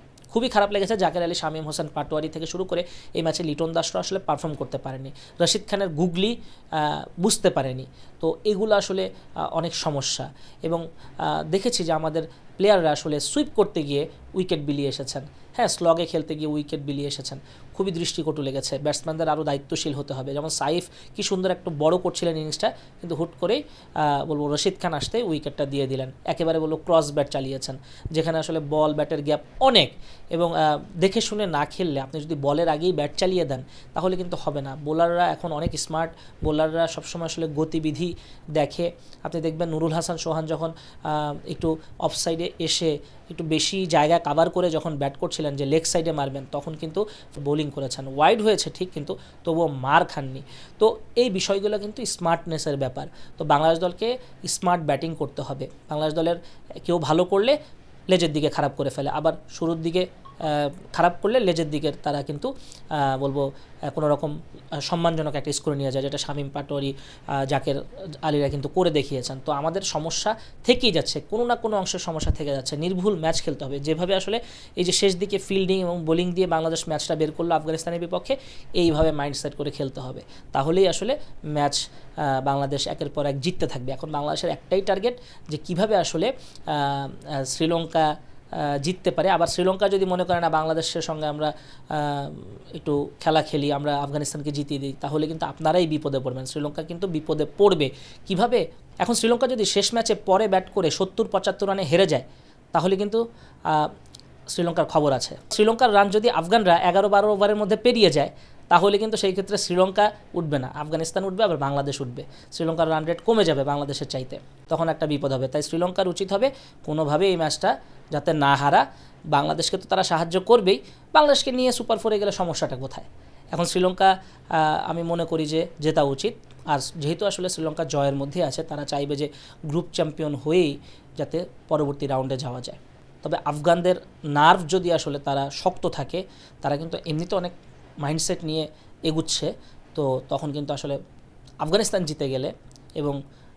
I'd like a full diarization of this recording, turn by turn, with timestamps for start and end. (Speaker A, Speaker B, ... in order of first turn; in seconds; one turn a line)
Speaker A: 0.3-57.6
Speaker A: 58.1-103.9
Speaker A: 104.5-141.0
Speaker A: 141.6-143.2